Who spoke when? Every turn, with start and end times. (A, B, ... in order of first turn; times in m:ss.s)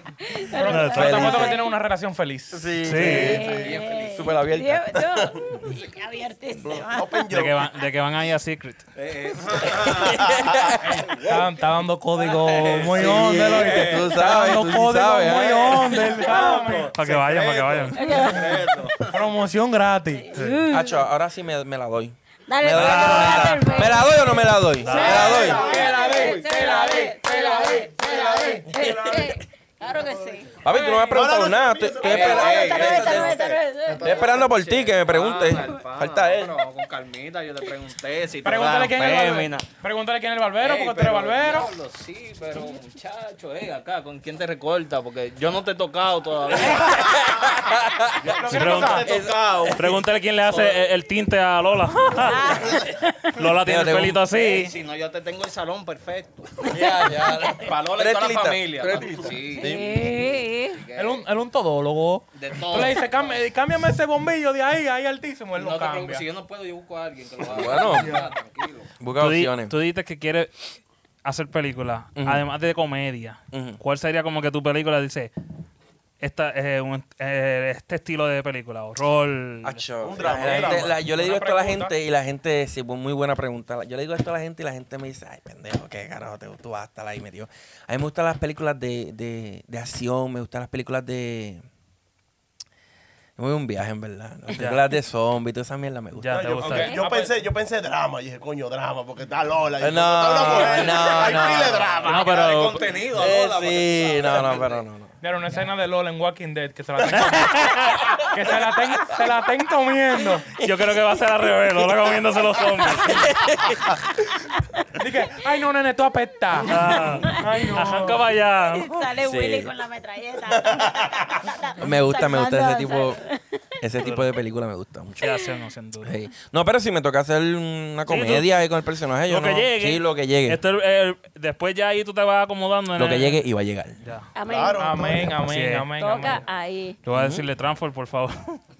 0:00.2-0:01.7 A
0:00.5-0:02.6 B
0:00.6-0:01.1 C
0:00.9-0:01.6 D
0:02.5-0:05.0 D
0:02.8-0:03.4 C
0:03.0-0:07.3 A
0:03.3-0:04.2 E
0:06.7-0:07.7 F
0:07.3-0:08.8 C
0:08.9-0:10.3 E
0:09.6-0:11.1 D
0:10.2-0:10.5 F
0:10.8-0:17.8 B
0:11.1-0:11.4 E
0:12.2-0:14.1 E
0:12.9-0:16.3 D
0:16.2-0:16.9 A
0:16.4-0:16.8 E
0:16.9-0:18.3 C
0:18.0-0:18.8 A
0:18.1-0:19.2 E
0:19.0-0:20.3 B
0:20.1-0:21.0 A
0:20.3-0:20.6 C
0:20.7-0:25.7 D
0:22.5-0:30.5 A
0:22.7-0:23.9 C
0:24.8-0:25.3 C
0:24.8-0:28.5 B
0:25.0-0:27.0 E
0:25.3-0:29.4 F
0:27.8-0:28.6 E
0:28.7-0:29.2 D
0:30.6-0:33.4 D
0:30.6-0:31.3 B
0:31.1-0:32.8 F
0:32.0-0:39.7 E
0:32.2-0:34.3 A
0:33.9-0:34.4 F
0:34.0-0:36.6 D
0:38.4-0:41.7 B
0:40.6-0:47.4 E
0:46.8-0:48.2 D
0:48.2-0:49.8 E
0:48.3-0:49.1 B
0:48.3-0:49.8 F
0:48.5-0:49.1 C
0:49.0-0:49.9 D
0:49.7-0:54.8 C
0:52.2-0:52.8 A
0:53.4-0:54.2 D
0:54.3-1:01.2 E
0:56.7-1:00.0 D
0:59.0-0:59.2 F
0:59.6-1:00.8 A
1:00.9-1:06.2 B
1:02.3-1:03.4 E
1:05.5-1:08.9 E
1:07.5-1:08.2 D
1:09.0-1:09.7 D
1:09.2-1:10.6 C
1:11.2-1:15.3 C
1:12.2-1:12.4 D
1:13.5-1:13.8 D
1:16.2-1:19.8 C
1:19.6-1:31.6 D
1:20.0-1:21.7 F
1:20.2-1:21.9 B
1:33.4-1:36.5 D
1:34.5-1:34.8 C
1:36.2-1:37.0 C
1:36.3-1:42.4 F
1:36.6-1:37.0 A
1:36.6-1:37.4 B
1:39.8-1:42.1 D
1:40.5-1:44.9 E
1:42.0-1:42.9 C
1:43.1-1:45.1 D
1:45.2-1:50.5 B
1:47.1-1:48.1 C
1:50.6-1:50.9 D
1:50.6-1:53.4 C
1:53.0-1:54.0 D
1:55.0-1:58.2 B
1:56.6-1:59.1 C
1:57.1-1:57.9 A
1:58.7-2:03.6 A
1:59.2-1:59.7 D
2:00.6-2:01.2 F
2:01.8-2:03.2 D
2:03.8-2:05.3 D
2:05.2-2:06.1 C
2:06.0-2:10.6 D
2:08.1-2:08.6 C
2:09.3-2:13.4 C
2:12.9-2:14.0 D
2:14.0-2:14.3 C
2:14.3-2:15.3 A
2:14.4-2:15.4 F
2:14.8-2:16.4 B
2:15.4-2:15.9 C
2:16.0-2:17.0 A
2:17.0-2:18.6 C
2:17.1-2:17.4 D